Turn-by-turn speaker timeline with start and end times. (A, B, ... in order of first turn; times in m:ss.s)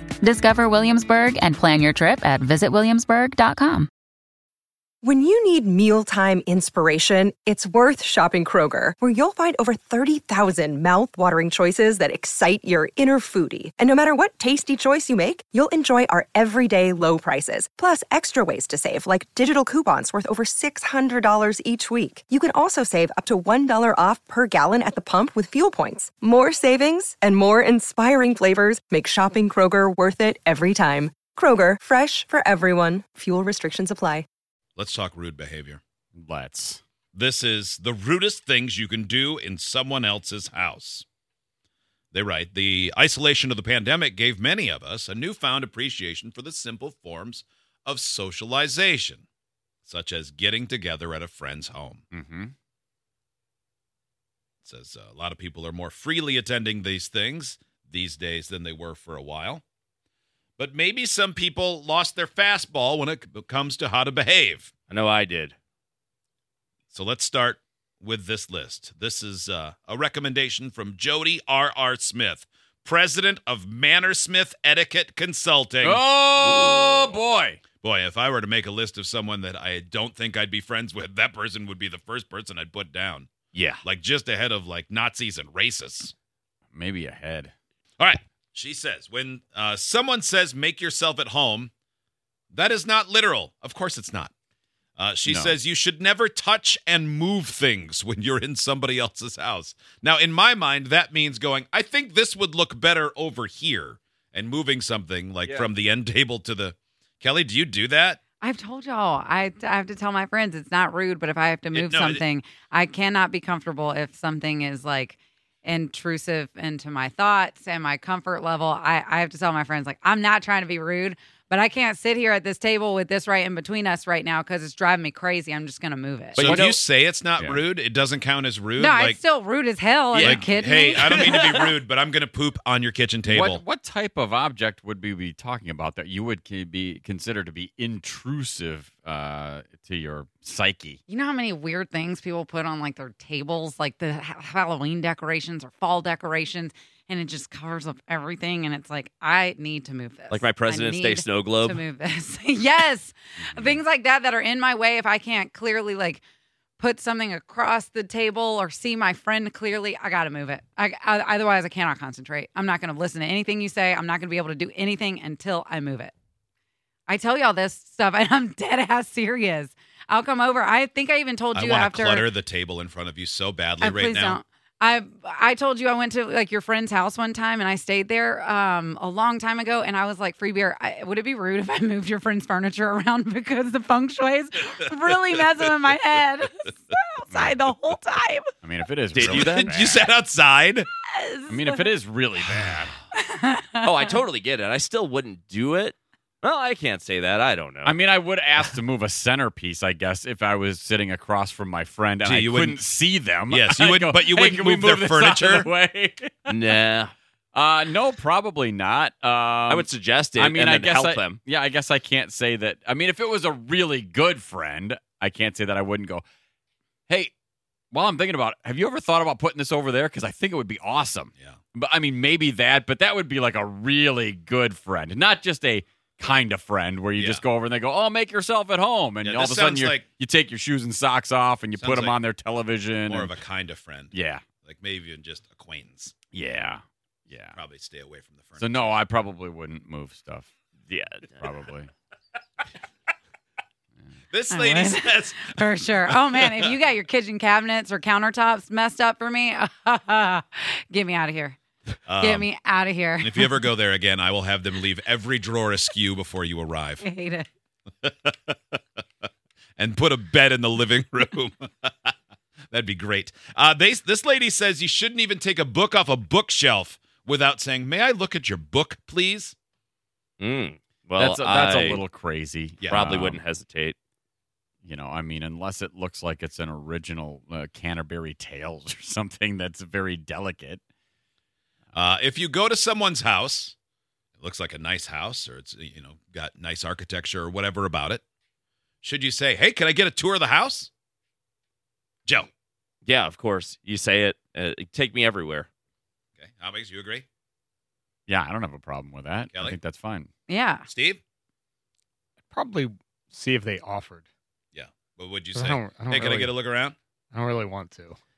0:00.2-0:03.9 A
0:05.0-0:34.2 B
0:34.8-0:35.8 C
0:36.2-0:36.8 D
0:37.1-0:41.0 C
0:42.1-0:49.2 C
0:49.8-0:52.0 C
0:52.1-0:52.5 D
0:54.6-0:59.6 C
1:00.6-1:04.7 C
1:04.9-1:05.5 E
1:06.9-1:16.0 C
1:15.8-1:17.6 D
1:16.3-1:17.2 E
1:17.8-1:23.3 C
1:23.5-1:23.8 E
1:23.8-1:26.1 C
1:26.7-1:27.5 D
1:28.0-1:31.7 C
1:32.5-1:34.3 C
1:35.0-1:48.2 C
1:35.2-1:35.6 D
1:48.4-2:06.5 F
1:51.7-1:52.2 C
2:06.4-2:06.8 E
2:06.4-2:09.2 C
2:06.4-2:06.8 D
2:07.4-2:07.7 D
2:08.8-2:11.6 F
2:10.1-2:10.7 D
2:10.2-2:13.6 C
2:11.0-2:11.7 E
2:13.2-2:21.0 D
2:21.1-2:36.2 F
2:30.3-2:31.8 E
2:36.8-2:46.1 F
2:47.1-2:52.3 F
2:51.5-2:54.4 C
2:53.8-3:08.5 F
3:07.3-3:07.7 D
3:08.6-3:10.1 D
3:09.1-3:09.9 E
3:09.2-3:10.9 C
3:11.1-3:11.8 F
3:11.5-3:12.9 D
3:13.1-3:13.9 F
3:13.8-3:18.0 E
3:17.8-3:26.7 D
3:22.3-3:22.8 C
3:23.5-3:25.7 C
3:26.5-3:27.1 E
3:27.5-3:36.2 D
3:29.7-3:31.4 E
3:37.9-3:53.4 D
3:47.2-3:47.4 C
3:49.2-3:50.0 C
3:51.8-3:52.2 C
3:53.1-3:56.1 C
3:54.1-3:54.5 D
3:56.3-3:57.6 D
3:57.6-3:58.7 C
3:58.6-4:00.5 D
4:00.9-4:01.5 E
4:01.4-4:01.9 D
4:04.3-4:05.6 C
4:04.5-4:11.6 F
4:12.1-4:12.5 C
4:12.1-4:13.7 F
4:13.2-4:17.0 C
4:17.0-4:17.5 F
4:18.0-4:18.8 C
4:19.8-4:22.1 C
4:22.7-4:29.5 C
4:30.4-4:32.0 E
4:31.2-4:33.4 D
4:32.9-4:34.0 E
4:34.8-4:40.8 D
4:41.9-4:43.7 C
4:44.4-4:48.2 C
4:49.0-4:50.9 C
4:53.0-4:55.7 E
4:56.4-4:57.2 C
4:58.3-5:00.3 D
4:59.5-4:59.8 C
5:00.5-5:00.9 F
5:00.9-5:01.2 C
5:02.5-5:04.2 G
5:04.7-5:07.0 C
5:05.5-5:06.5 G
5:07.3-5:08.2 G